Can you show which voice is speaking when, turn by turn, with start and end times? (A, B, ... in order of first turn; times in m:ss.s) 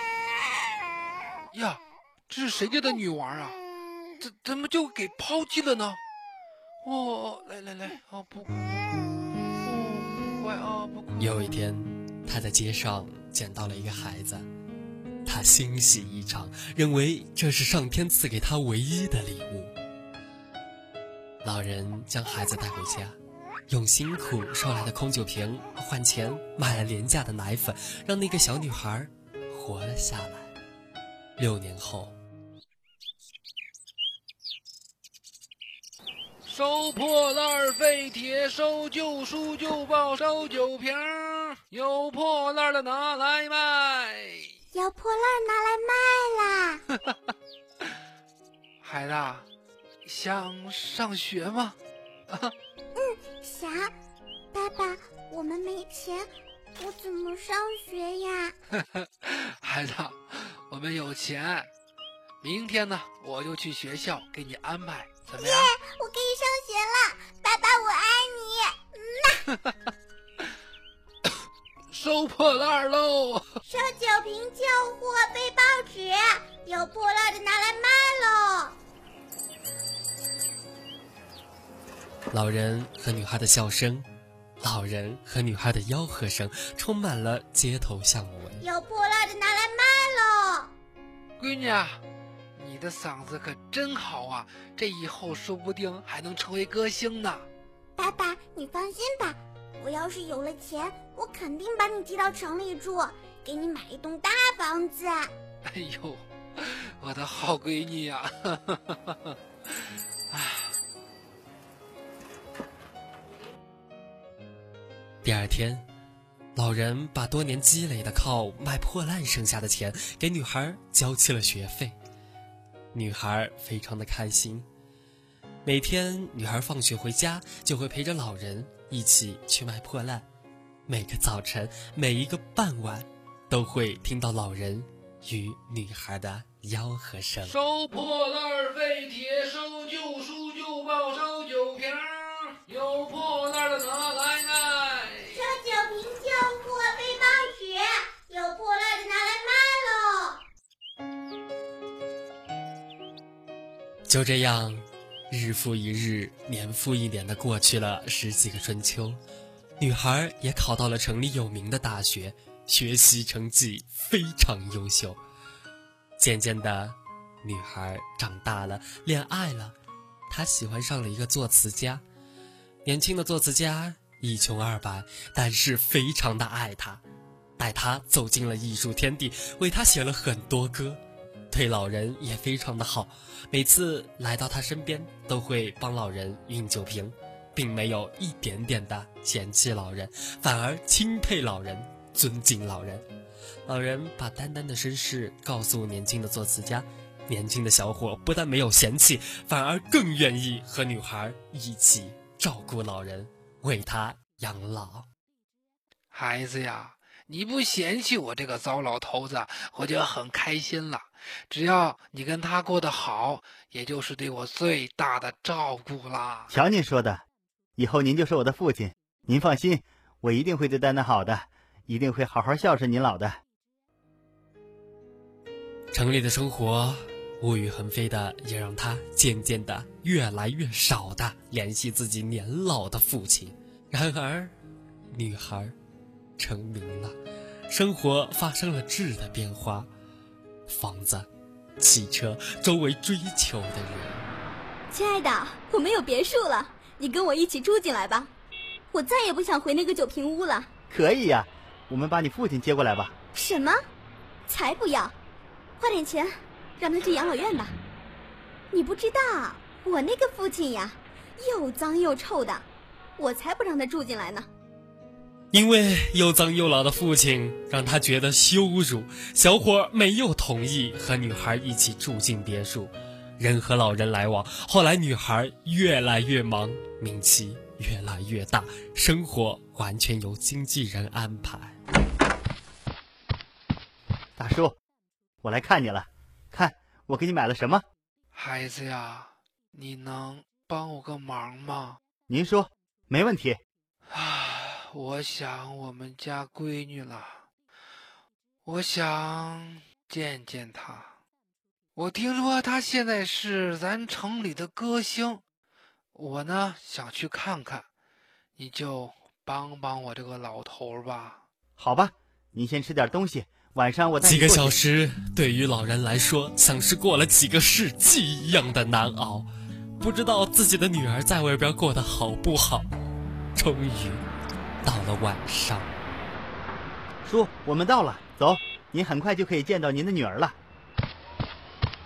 0:01.5-0:03.6 A
0:04.2-0:06.0 A
0:06.8-0:08.7 A
0:09.6-0:11.3 A
0:11.2-0:14.5 B
0:15.3-0:19.7 B
0:21.4-0:23.2 B
0:23.7-0:30.5 B
0:31.4-0:32.2 B
0:36.5-0:44.5 A
0:44.7-0:46.8 C
0:48.8-0:49.5 A
0:50.0-0:51.8 A
0:53.0-0:53.9 C
0:54.5-0:58.5 C
0:58.7-1:01.7 A
1:02.4-1:05.7 A
1:05.4-1:09.4 C
1:11.9-1:13.6 A
1:13.7-1:18.8 C
1:22.3-1:24.1 B
1:24.6-1:28.6 B
1:28.6-1:30.7 C
1:31.4-1:32.0 A
1:32.6-1:37.5 A
1:38.0-1:45.3 C
1:45.7-1:49.4 A
1:50.3-1:50.7 A
1:55.2-1:55.9 B
1:56.6-2:02.0 B
2:02.9-2:04.7 B
2:05.6-2:10.3 B
2:10.9-2:17.6 B
2:17.4-2:25.5 A
2:25.3-2:30.4 C
2:34.1-2:39.2 B
2:39.8-2:45.2 B
2:46.2-2:49.8 B
2:50.3-2:52.0 B
2:52.8-2:57.0 B
2:57.6-3:13.0 B
3:13.7-3:25.1 B
3:26.1-3:36.5 A
3:36.5-3:37.2 D
3:37.8-3:43.4 D
3:45.9-3:54.5 B
3:55.1-3:55.8 B
3:56.4-3:57.2 B
3:57.7-3:59.9 B
4:00.7-4:01.3 B
4:01.8-4:04.3 B
4:04.9-4:08.3 E
4:08.9-4:10.7 E
4:10.9-4:13.1 D
4:13.3-4:13.8 E
4:14.5-4:15.1 E
4:15.8-4:17.8 E
4:18.7-4:22.7 E
4:23.2-4:24.5 E
4:25.5-4:41.8 B
4:44.4-4:44.8 D
4:45.4-4:47.8 D
4:48.3-4:52.0 A
4:52.3-4:53.6 D
4:54.1-4:57.5 A
4:58.6-5:01.2 A
5:02.0-5:05.4 A
5:06.1-5:07.9 A
5:08.6-5:11.4 A
5:11.8-5:14.8 D
5:14.2-5:19.5 B
5:20.0-5:22.9 B
5:23.6-5:24.2 B
5:24.8-5:25.9 B
5:27.2-5:30.6 D